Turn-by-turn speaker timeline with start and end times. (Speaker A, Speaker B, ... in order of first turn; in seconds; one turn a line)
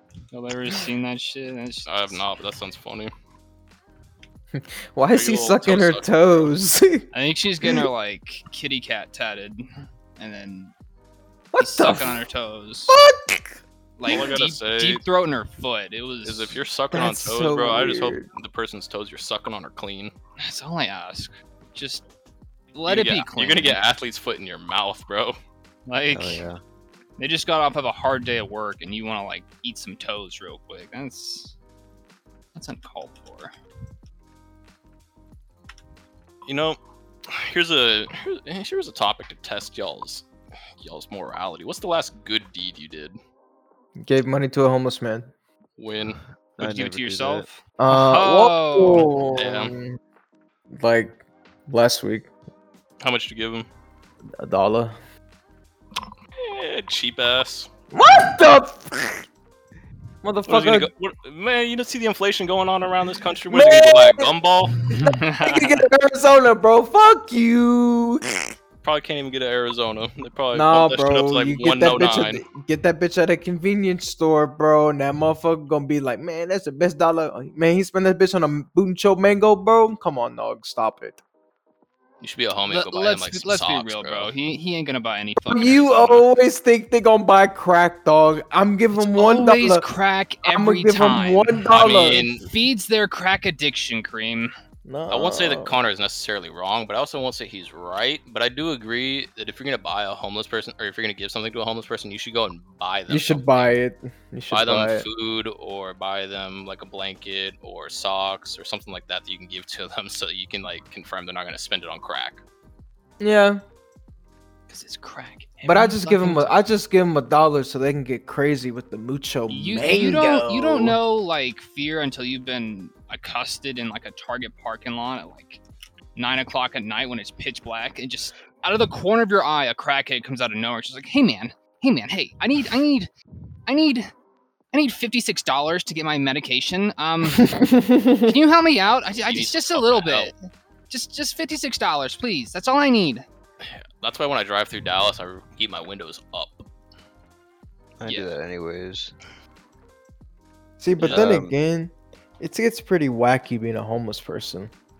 Speaker A: 0.3-2.2
Speaker B: 1.9-3.1
Speaker C: 4.5-7.1
Speaker B: 5.1-6.5
Speaker A: 7.1-9.6
Speaker A: 10.2-10.7
Speaker C: 11.5-12.2
Speaker A: 11.6-13.0
Speaker C: 12.9-14.3
Speaker A: 14.0-16.6
Speaker B: 14.0-15.0
Speaker B: 16.2-20.1
Speaker C: 16.9-18.3
Speaker A: 20.4-22.1
Speaker A: 22.7-23.8
Speaker B: 22.9-25.4
Speaker A: 25.9-26.4
Speaker D: 26.1-26.6
Speaker A: 27.2-31.6
Speaker A: 32.5-33.5
Speaker B: 36.5-40.2
Speaker B: 40.8-43.2
Speaker C: 44.0-45.3
Speaker B: 45.8-46.2
Speaker D: 46.1-47.5
Speaker A: 46.6-49.1
Speaker C: 47.8-50.0
Speaker B: 49.3-49.8
Speaker C: 50.7-52.3
Speaker B: 53.0-53.7
Speaker C: 54.4-55.0
Speaker B: 56.4-57.7
Speaker C: 57.9-59.2
Speaker C: 60.2-60.9
Speaker B: 60.5-64.8
Speaker C: 63.5-68.5
Speaker A: 64.9-65.8
Speaker B: 68.8-72.4
Speaker C: 70.5-81.2
Speaker B: 82.2-84.3
Speaker A: 82.7-86.3
Speaker C: 85.5-89.8
Speaker A: 88.9-94.5
Speaker C: 90.4-92.3
Speaker B: 91.7-92.5
Speaker C: 94.8-95.8
Speaker B: 95.1-103.7
Speaker C: 103.1-105.1
Speaker B: 104.5-112.4
Speaker C: 113.2-113.6
Speaker A: 114.7-116.6
Speaker C: 115.6-121.0
Speaker A: 119.5-125.6
Speaker A: 126.1-133.1
Speaker A: 133.7-134.1
Speaker A: 134.7-137.6
Speaker C: 137.3-138.4
Speaker A: 138.2-143.2
Speaker B: 139.2-140.3
Speaker B: 143.6-146.6
Speaker D: 148.0-149.2
Speaker A: 148.0-148.3
Speaker C: 150.8-154.7
Speaker B: 151.0-151.3
Speaker D: 151.0-151.6